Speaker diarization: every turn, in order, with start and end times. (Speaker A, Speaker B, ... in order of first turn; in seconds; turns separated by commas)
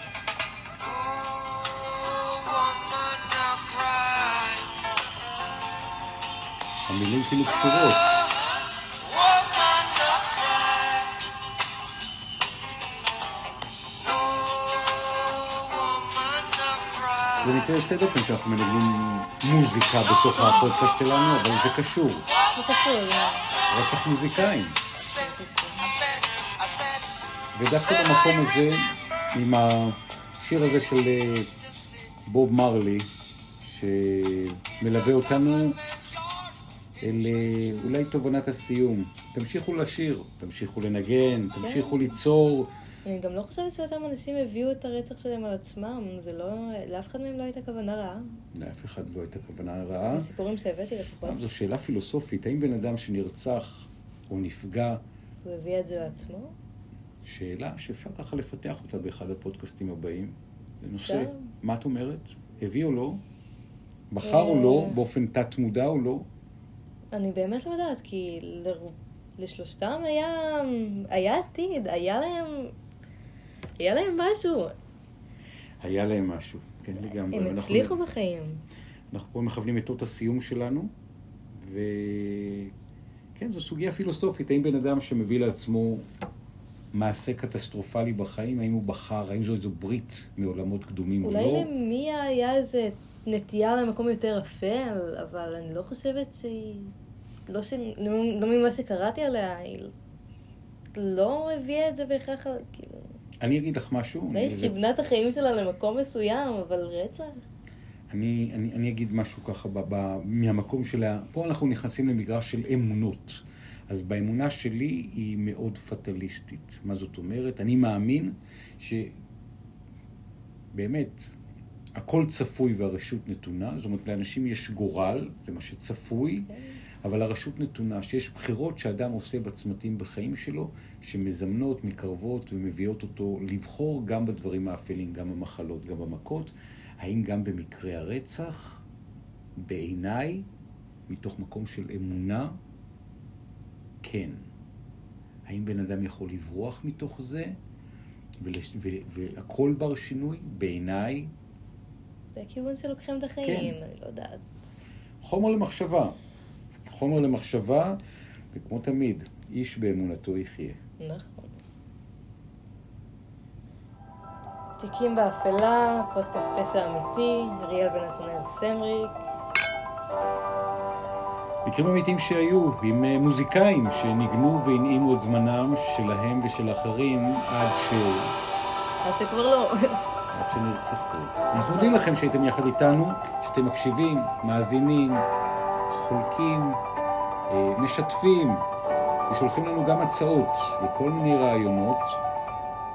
Speaker A: 6.9-8.3, Speaker A: 17.4-22.3, Speaker B: 20.3-20.7, Speaker B: 22.6-23.5, Speaker A: 23.7-24.8, Speaker B: 25.0-26.0, Speaker A: 27.5-31.6, Speaker A: 32.3-35.8, Speaker A: 37.0-42.7, Speaker B: 41.6-42.1, Speaker B: 43.0-48.3, Speaker A: 48.5-50.3, Speaker B: 50.1-51.4, Speaker A: 51.2-55.0, Speaker B: 55.5-56.5, Speaker A: 57.2-63.2, Speaker B: 61.0-61.5, Speaker A: 64.1-66.3, Speaker B: 64.2-65.0, Speaker B: 67.1-72.7, Speaker B: 73.8-74.7, Speaker A: 75.8-78.0, Speaker B: 77.0-78.6, Speaker A: 79.1-80.9, Speaker A: 81.5-82.7, Speaker A: 83.3-86.1, Speaker A: 86.9-91.7, Speaker B: 91.2-96.9, Speaker B: 97.5-99.9, Speaker B: 101.0-103.1, Speaker A: 103.4-104.8, Speaker B: 104.3-107.4, Speaker A: 108.1-119.2, Speaker A: 120.7-121.4, Speaker A: 122.0-138.8, Speaker B: 126.5-126.8, Speaker A: 139.6-140.5, Speaker A: 141.1-142.6, Speaker A: 144.0-144.4, Speaker A: 145.5-147.6, Speaker A: 148.4-151.3, Speaker B: 152.4-154.4, Speaker A: 153.4-153.8, Speaker A: 155.2-156.2, Speaker A: 156.8-158.0, Speaker A: 158.5-160.8, Speaker B: 161.0-161.6, Speaker B: 164.8-169.2, Speaker A: 171.7-178.4, Speaker B: 179.0-180.1, Speaker A: 180.3-185.3, Speaker B: 181.5-182.1, Speaker A: 185.9-186.8, Speaker A: 187.5-188.7, Speaker A: 189.3-192.2